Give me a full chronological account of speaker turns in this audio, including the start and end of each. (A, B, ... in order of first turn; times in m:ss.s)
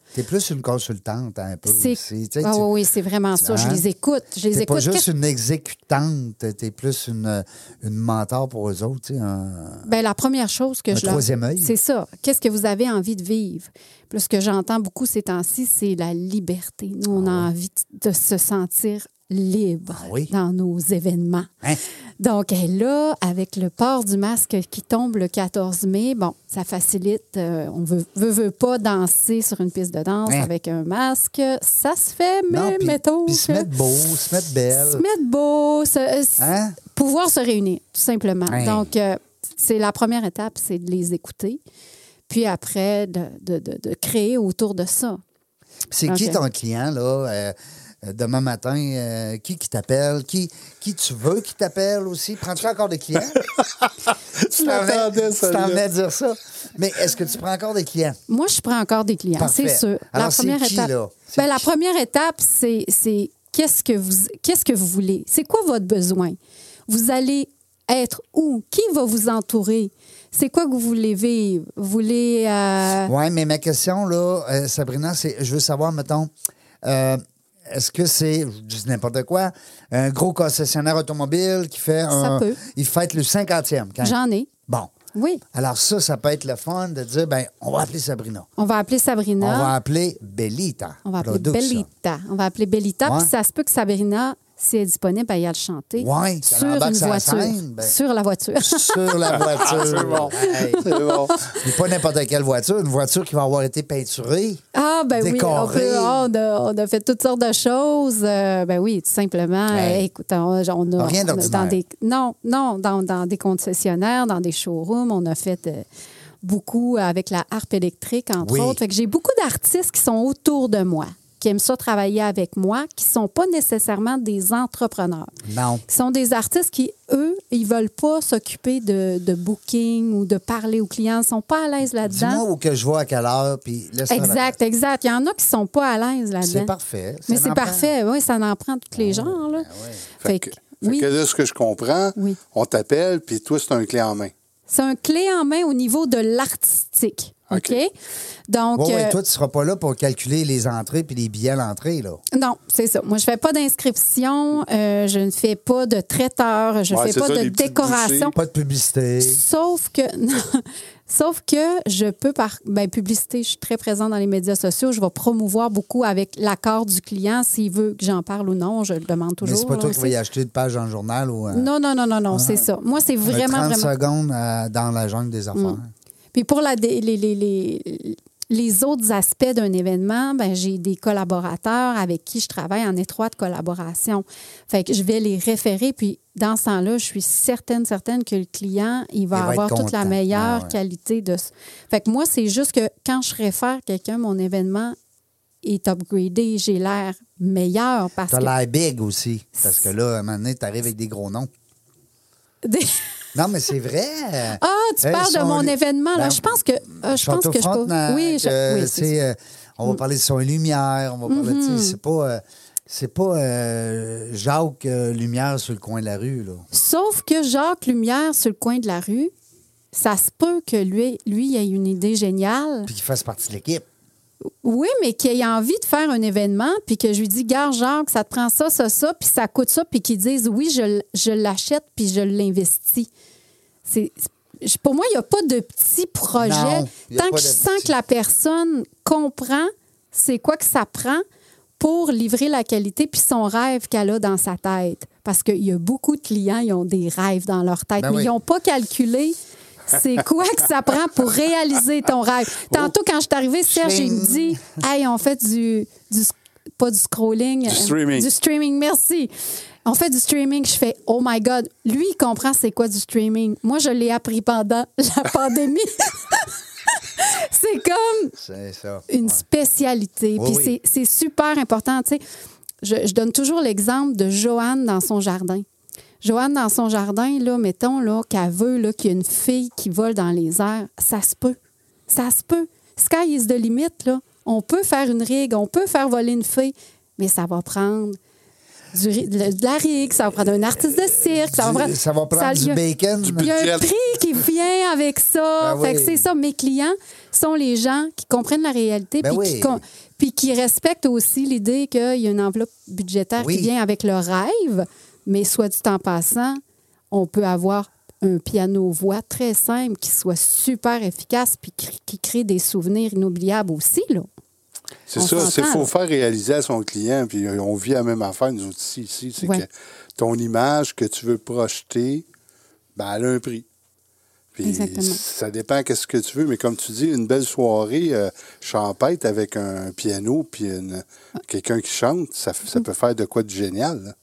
0:00.1-0:02.7 A
0:01.6-0:05.1 B
0:03.4-0:03.8 A
0:04.5-0:09.9 A
0:09.8-0:21.5 B
0:10.9-0:11.7 A
0:17.1-0:17.5 A
0:19.9-0:20.3 A
0:22.2-0:33.7 B
0:32.5-0:35.0 A
0:34.8-0:41.6 B
0:36.4-0:36.8 A
0:38.5-0:38.9 A
0:42.3-0:45.2 B
0:45.9-0:53.4 A
0:46.1-0:46.4 B
0:53.3-0:55.8 C
0:54.5-0:58.2 A
0:58.3-1:06.4 B
0:59.4-1:01.7 A
1:06.9-1:13.1 B
1:13.1-1:16.3 A
1:16.8-1:24.2 A
1:22.1-1:22.6 B
1:24.0-1:24.5 B
1:25.1-1:25.4 B
1:25.5-1:28.5 A
1:28.6-1:29.7 B
1:29.4-1:31.9 A
1:31.0-1:41.6 B
1:33.0-1:33.3 A
1:36.0-1:37.9 A
1:38.6-1:44.6 A
1:39.4-1:41.4 C
1:44.7-1:55.8 B
1:45.2-1:46.3 A
1:49.7-1:50.1 A
1:51.0-1:51.8 A
1:56.4-2:05.3 B
1:58.4-1:58.8 A
2:05.4-2:05.8 A
2:05.9-2:12.4 B
2:12.1-2:14.6 A
2:14.1-2:16.7 B
2:16.4-2:17.9 A
2:17.3-2:19.7 B
2:18.9-2:20.1 A
2:20.2-2:21.1 B
2:20.2-2:24.3 C
2:24.7-2:27.9 B
2:27.5-2:27.8 C
2:28.5-2:29.2 B
2:28.7-2:32.2 A
2:32.3-2:38.4 B
2:36.9-2:38.3 C
2:38.3-2:39.4 A
2:39.2-2:50.1 B
2:49.4-2:51.7 A
2:51.5-2:53.9 B
2:52.3-2:52.6 A
2:53.2-2:55.9 A
2:56.3-3:15.0 B
3:09.3-3:10.8 A
3:15.6-3:18.5 B
3:18.3-3:21.5 A
3:22.6-3:23.0 B
3:23.4-3:36.6 A
3:24.6-3:29.1 B
3:31.3-3:32.0 B
3:36.7-3:39.3 B
3:39.9-3:42.9 B
3:42.9-3:43.8 A
3:44.6-3:53.1 B
3:53.9-4:01.2 B
3:56.4-3:57.9 A
4:01.8-4:19.3 B
4:08.0-4:08.3 A
4:13.7-4:14.6 A
4:17.7-4:18.3 C
4:19.8-4:28.4 B
4:28.4-4:29.4 A
4:29.1-4:32.2 B
4:30.4-4:30.7 A
4:32.8-4:35.6 B
4:36.2-4:41.6 B
4:42.1-4:48.2 B
4:48.9-4:52.8 B
4:51.4-4:53.4 A
4:53.2-4:53.9 C
4:53.4-5:14.3 B
4:55.6-4:56.3 A
4:59.2-4:59.8 A
5:03.4-5:03.7 A
5:15.1-5:22.3 C
5:15.2-5:15.9 B
5:19.4-5:19.6 B
5:23.0-5:23.7 C
5:24.5-5:34.1 C
5:24.6-5:25.2 B